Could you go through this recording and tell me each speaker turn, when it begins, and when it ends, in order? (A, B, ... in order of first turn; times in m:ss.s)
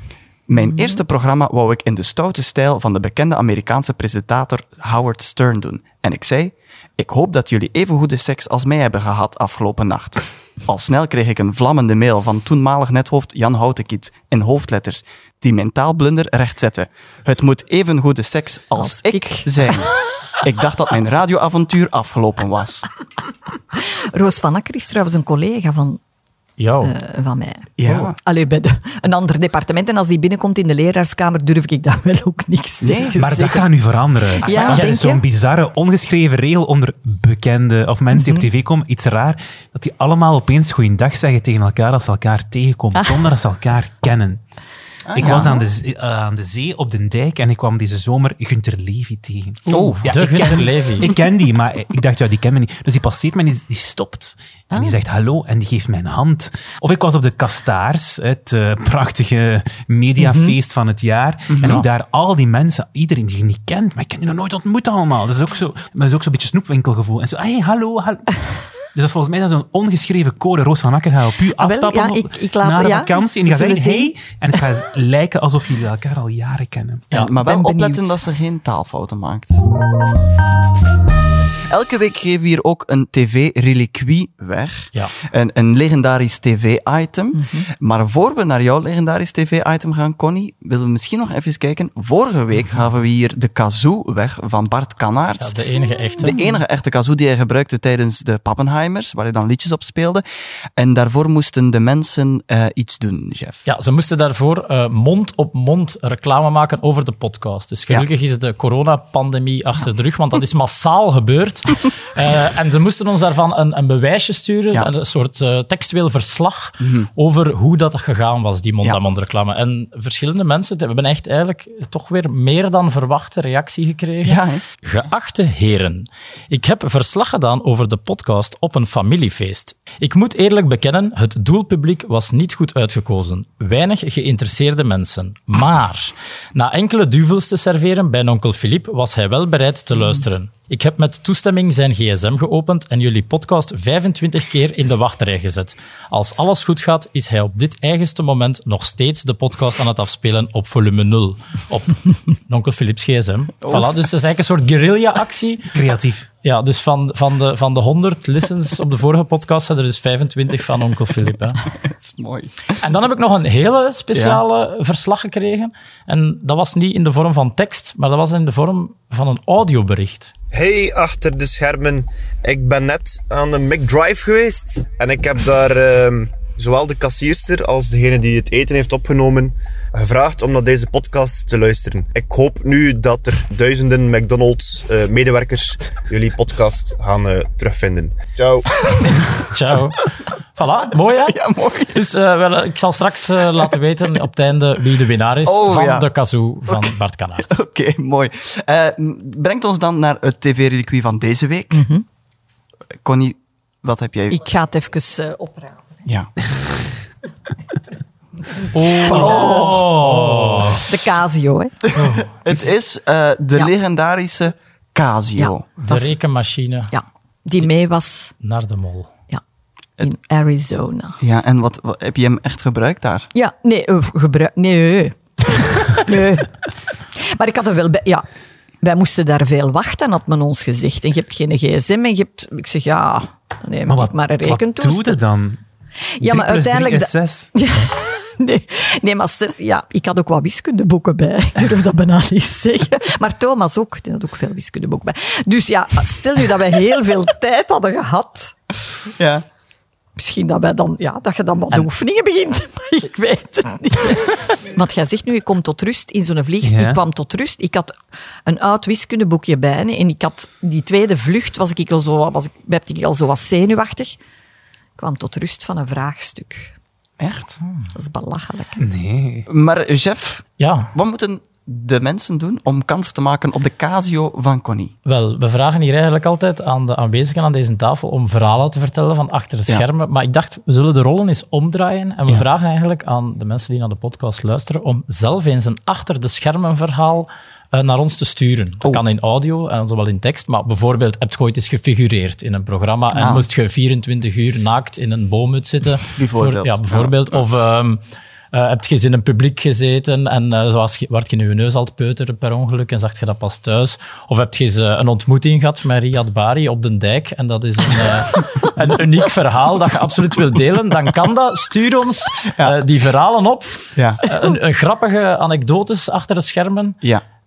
0:00.5-0:22.8 A
0:00.6-0:01.0 B
0:18.8-0:19.6 B
0:23.8-0:26.0 B
0:26.6-0:26.9 C
0:26.8-0:33.7 B
0:27.8-0:28.2 A
0:32.8-0:33.5 A
0:33.2-0:44.4 D
0:34.4-0:35.2 B
0:34.4-0:34.8 A
0:38.1-0:38.4 B
0:45.0-0:45.6 A
0:45.1-1:17.1 D
0:49.7-0:50.1 A
0:49.7-0:51.1 C
0:54.7-0:55.0 B
1:00.2-1:00.5 B
1:01.5-1:01.8 A
1:11.6-1:14.1 B
1:17.1-1:19.6 A
1:17.3-1:18.2 B
1:21.7-1:35.5 A
1:27.3-1:27.7 B
1:35.4-1:36.4 C
1:36.2-1:40.2 A
1:40.8-1:43.7 A
1:43.6-2:35.7 C
1:56.8-1:57.1 A
2:04.2-2:04.6 A
2:33.6-2:34.1 A
2:35.7-2:36.3 D
2:36.4-2:41.6 C
2:41.7-2:42.8 A
2:42.8-2:50.3 C
2:44.1-2:44.4 A
2:50.5-3:09.1 E
3:09.3-3:17.6 C
3:11.2-3:12.0 A
3:15.4-3:16.1 A
3:16.7-3:16.9 A
3:17.4-3:21.8 A
3:21.7-3:22.0 B
3:23.0-3:24.4 A
3:24.3-3:26.0 B
3:26.0-3:26.3 A
3:28.7-3:30.8 C
3:28.9-3:30.8 D
3:29.0-3:29.8 A
3:29.1-3:29.8 B
3:30.8-3:31.7 B
3:31.8-3:35.6 A
3:35.4-3:36.1 B
3:35.8-3:36.9 C
3:36.9-3:38.3 B
3:38.4-3:39.1 C
3:40.0-3:41.2 B
3:41.2-3:43.3 A
3:43.3-3:46.5 B
3:47.2-3:48.2 B
3:48.8-3:55.2 B
3:53.9-3:55.6 D
3:56.2-4:08.5 B
3:56.2-3:57.5 D
4:09.2-4:09.4 A
4:10.2-4:24.2 B
4:16.6-4:17.0 D
4:25.0-4:26.7 B
4:27.2-4:27.6 A
4:27.9-4:28.8 B
4:28.8-4:29.5 D
4:29.5-4:34.9 A
4:30.6-4:30.9 C
4:35.0-5:17.0 C
4:53.1-4:53.4 A
4:56.2-4:57.4 A
5:12.4-5:12.8 A
5:13.9-5:14.2 A